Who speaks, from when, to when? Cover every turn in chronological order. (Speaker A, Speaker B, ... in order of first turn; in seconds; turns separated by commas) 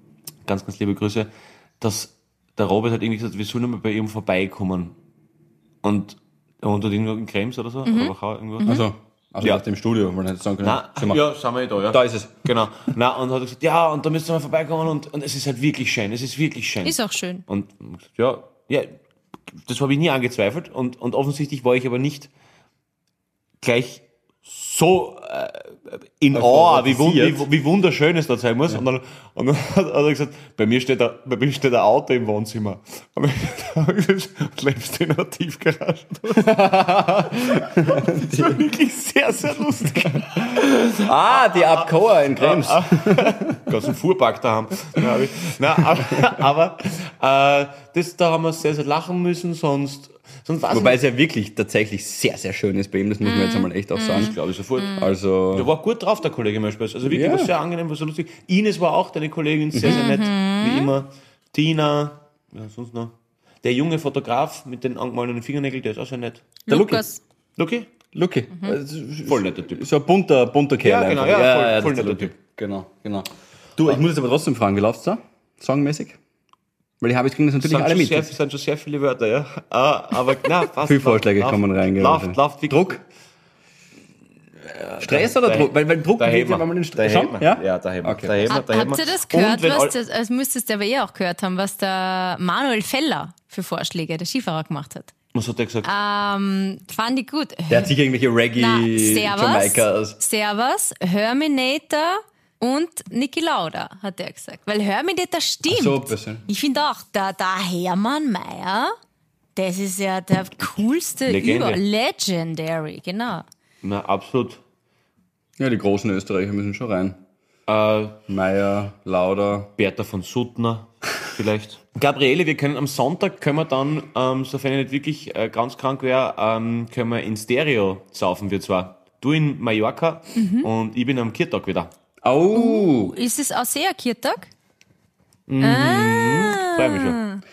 Speaker A: 0.4-5.0, Speaker A: 5.8-8.8, Speaker B: 7.8-8.8, Speaker C: 8.6-11.2, Speaker A: 10.6-18.9, Speaker C: 11.9-12.3, Speaker B: 16.8-17.4, Speaker A: 19.5-22.3, Speaker A: 23.6-36.6, Speaker C: 26.3-27.4, Speaker C: 36.4-38.6, Speaker A: 37.3-51.0, Speaker C: 41.0-43.7, Speaker C: 50.7-54.3, Speaker B: 53.2-55.1, Speaker A: 54.1-66.5, Speaker C: 55.0-55.7, Speaker C: 57.0-57.5, Speaker C: 59.7-60.0, Speaker B: 59.9-60.9, Speaker B: 66.7-67.2, Speaker C: 66.7-67.0, Speaker A: 67.6-67.9, Speaker C: 68.1-76.2, Speaker A: 69.2-69.8, Speaker A: 70.8-72.3, Speaker C: 77.0-78.3, Speaker A: 77.6-82.9, Speaker C: 80.8-83.0, Speaker A: 84.7-89.9, Speaker C: 85.0-88.4, Speaker B: 88.5-95.1, Speaker A: 95.3-95.9, Speaker B: 95.8-97.9, Speaker C: 97.7-100.2, Speaker B: 98.5-108.9, Speaker C: 105.7-106.4, Speaker B: 109.5-113.4, Speaker A: 111.3-111.8, Speaker A: 113.8-114.6, Speaker C: 115.6-117.2, Speaker A: 117.7-118.2, Speaker C: 118.3-119.7, Speaker A: 119.8-131.9, Speaker B: 130.4-130.7, Speaker C: 132.2-133.2, Speaker B: 132.5-134.5, Speaker A: 135.5-137.2, Speaker B: 135.6-137.4